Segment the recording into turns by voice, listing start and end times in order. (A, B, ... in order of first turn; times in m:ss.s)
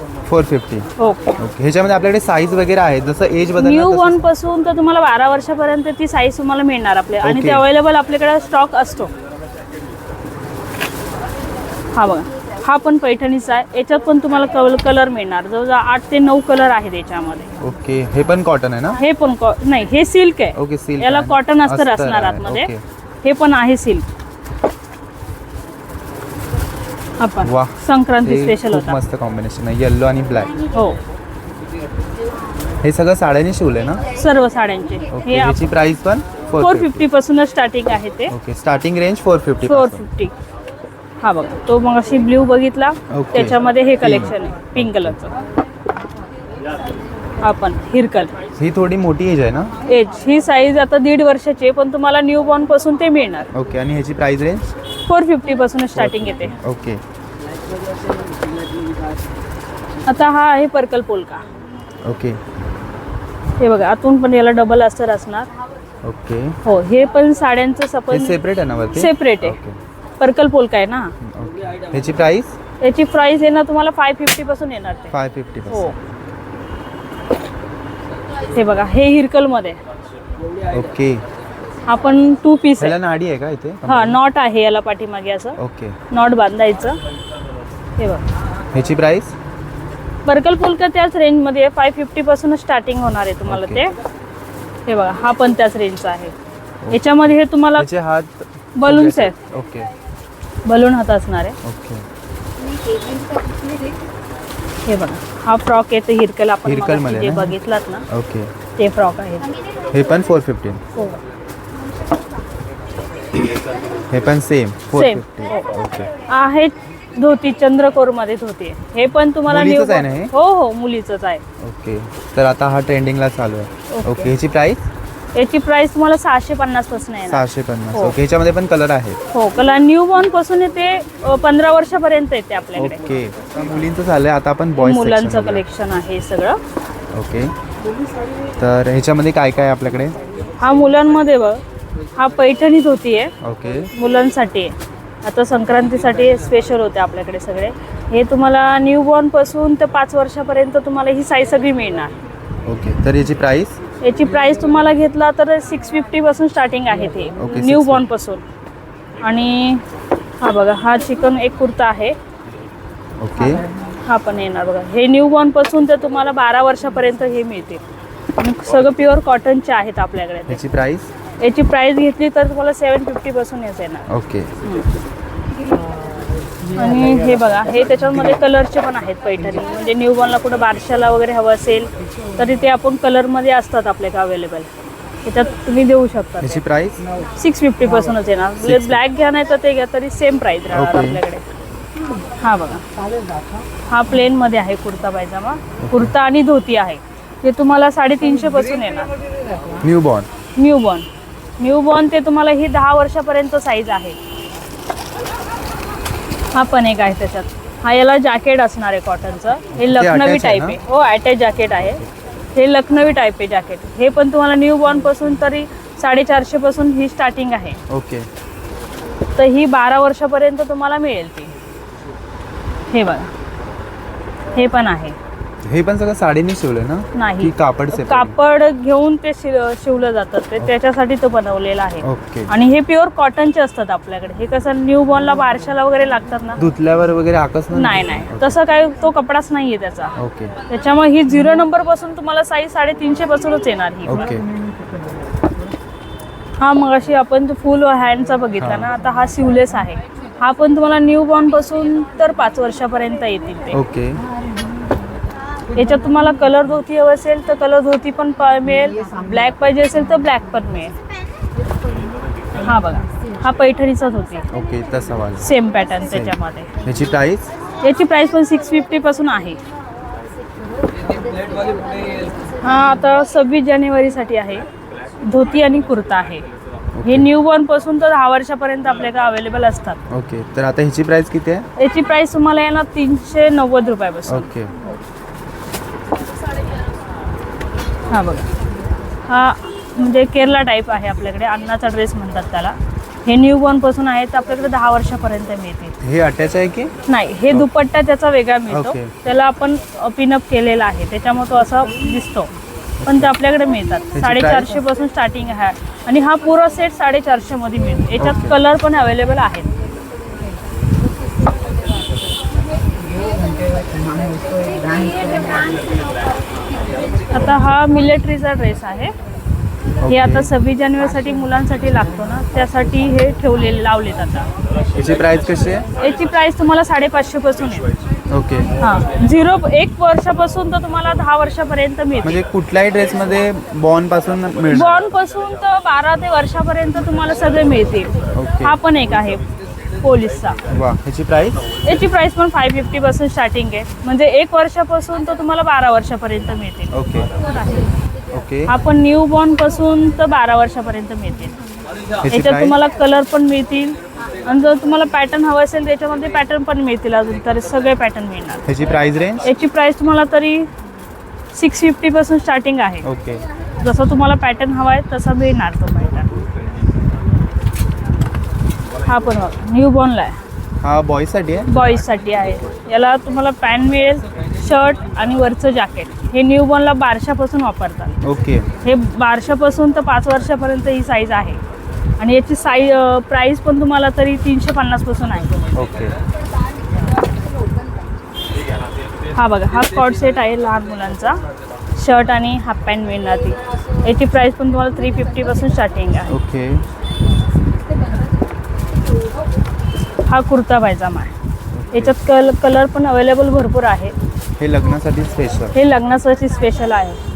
0:00.3-0:04.2 A
0:01.0-0:01.3 B
0:03.6-0:09.1 B
0:07.2-0:07.6 A
0:12.0-0:17.5 B
0:17.6-0:19.0 A
0:19.0-0:22.7 B
0:20.6-0:22.8 A
0:23.2-0:24.0 B
0:27.2-0:29.0 B
0:27.4-0:30.6 A
0:32.8-0:34.0 A
0:34.2-0:35.6 B
0:35.1-0:37.0 A
0:36.6-0:38.3 B
0:38.3-0:40.0 A
0:39.6-0:40.3 B
0:41.2-0:45.4 B
0:43.1-0:45.2 A
0:47.4-0:48.3 B
0:48.6-0:49.7 A
0:49.8-0:53.5 B
0:53.5-0:54.6 A
0:55.1-0:56.6 B
0:56.0-0:57.0 A
1:00.1-1:01.4 B
1:02.0-1:02.4 A
1:03.6-1:05.5 B
1:06.0-1:06.6 A
1:06.6-1:08.4 B
1:08.1-1:09.8 A
1:08.9-1:09.6 B
1:10.2-1:11.2 B
1:11.2-1:12.6 A
1:12.8-1:15.1 B
1:15.1-1:15.9 A
1:15.7-1:16.0 B
1:18.5-1:19.8 B
1:20.7-1:21.2 A
1:21.9-1:23.0 B
1:22.8-1:24.2 A
1:23.8-1:25.6 B
1:25.6-1:26.0 A
1:26.1-1:27.0 B
1:28.0-1:28.2 B
1:28.7-1:29.3 A
1:30.2-1:33.9 B
1:33.5-1:33.8 A
1:34.9-1:36.3 B
1:36.8-1:39.9 A
1:36.9-1:37.9 B
1:38.8-1:39.3 B
1:40.7-1:41.6 B
1:41.6-1:42.1 A
1:44.8-1:48.0 B
1:46.6-1:47.6 A
1:48.1-1:48.5 A
1:48.8-1:49.5 B
1:49.9-1:50.8 A
1:54.1-1:56.1 A
1:55.0-1:55.7 B
1:56.3-2:01.4 B
1:59.5-2:00.3 A
2:01.6-2:04.9 A
2:03.9-2:04.3 B
2:05.4-2:08.2 B
2:07.3-2:09.2 A
2:09.3-2:13.0 B
2:12.8-2:15.6 A
2:14.8-2:16.6 B
2:17.1-2:17.5 A
2:18.6-2:20.2 A
2:20.6-2:21.6 B
2:22.2-2:23.3 B
2:23.4-2:23.9 A
2:23.9-2:32.1 B
2:32.6-2:33.8 A
2:34.0-2:38.4 B
2:37.4-2:38.0 A
2:39.2-2:39.8 B
2:40.4-2:42.2 B
2:43.2-2:43.7 A
2:44.0-2:47.8 B
2:48.4-2:50.6 B
2:50.5-2:51.1 A
2:51.4-2:54.1 B
2:54.1-2:54.5 A
2:56.8-3:04.7 B
3:05.2-3:06.6 B
3:06.4-3:07.0 A
3:07.4-3:11.5 B
3:08.6-3:09.0 A
3:10.7-3:11.2 A
3:12.4-3:12.8 B
3:13.9-3:19.1 B
3:15.8-3:16.2 A
3:19.8-3:20.3 A
3:20.6-3:21.1 B
3:21.6-3:24.2 B
3:26.6-3:32.0 B
3:29.7-3:30.8 A
3:32.6-3:37.8 B
3:37.9-3:38.3 A
3:39.4-3:41.5 B
3:42.9-3:43.3 B
3:44.6-3:45.2 B
3:45.6-3:48.4 A
3:47.2-3:56.6 B
3:52.0-3:52.5 A
3:56.6-3:58.6 A
3:57.7-4:00.1 B
4:00.2-4:00.5 A
4:00.7-4:04.2 B
4:04.1-4:04.4 A
4:06.6-4:13.8 B
4:08.6-4:08.9 A
4:13.7-4:14.2 A
4:15.8-4:21.0 B
4:22.6-4:24.4 B
4:24.5-4:25.5 A
4:25.4-4:26.7 B
4:26.1-4:27.5 A
4:27.8-4:29.6 B
4:32.6-4:34.6 B
4:35.3-4:36.4 B
4:37.0-4:37.3 A
4:37.0-4:40.0 B
4:40.1-4:41.6 A
4:41.8-4:45.0 B
4:44.3-4:44.7 A
4:48.1-4:48.5 B
4:49.3-4:56.0 B
4:56.0-4:56.9 A
4:57.1-5:02.5 B
4:58.7-4:59.1 A
5:03.0-5:03.3 A
5:03.1-5:09.7 B
5:04.1-5:04.8 A
5:08.2-5:08.6 A
5:17.3-5:19.1 B
5:20.0-5:20.5 A
5:20.1-5:24.5 B
5:25.0-5:25.9 A
5:26.0-5:27.8 B
5:28.3-5:28.7 A
5:28.8-5:32.4 B
5:32.2-5:35.0 A
5:34.7-5:39.4 B
5:38.4-5:38.8 A
5:40.0-5:40.6 B
5:40.7-5:41.6 A
5:41.9-5:47.9 B
5:46.9-5:47.3 A
5:48.3-5:48.7 A
5:48.7-5:51.6 B
5:52.2-5:52.8 A
5:52.3-5:58.6 B
5:58.7-5:59.5 A
5:59.4-6:00.7 B
6:01.5-6:03.1 B
6:03.0-6:03.4 A
6:03.8-6:06.3 B
6:09.1-6:10.4 B
6:10.8-6:11.7 A
6:11.7-6:18.2 B
6:18.2-6:18.7 A
6:18.8-6:21.6 B
6:22.2-6:25.5 B
6:25.7-6:26.2 A
6:29.4-6:31.4 B
6:32.0-6:36.4 B
6:36.3-6:36.8 A
6:40.3-6:41.3 B
6:41.7-6:42.2 A
6:41.9-6:44.2 B
6:44.6-6:45.7 A
6:45.7-6:47.2 B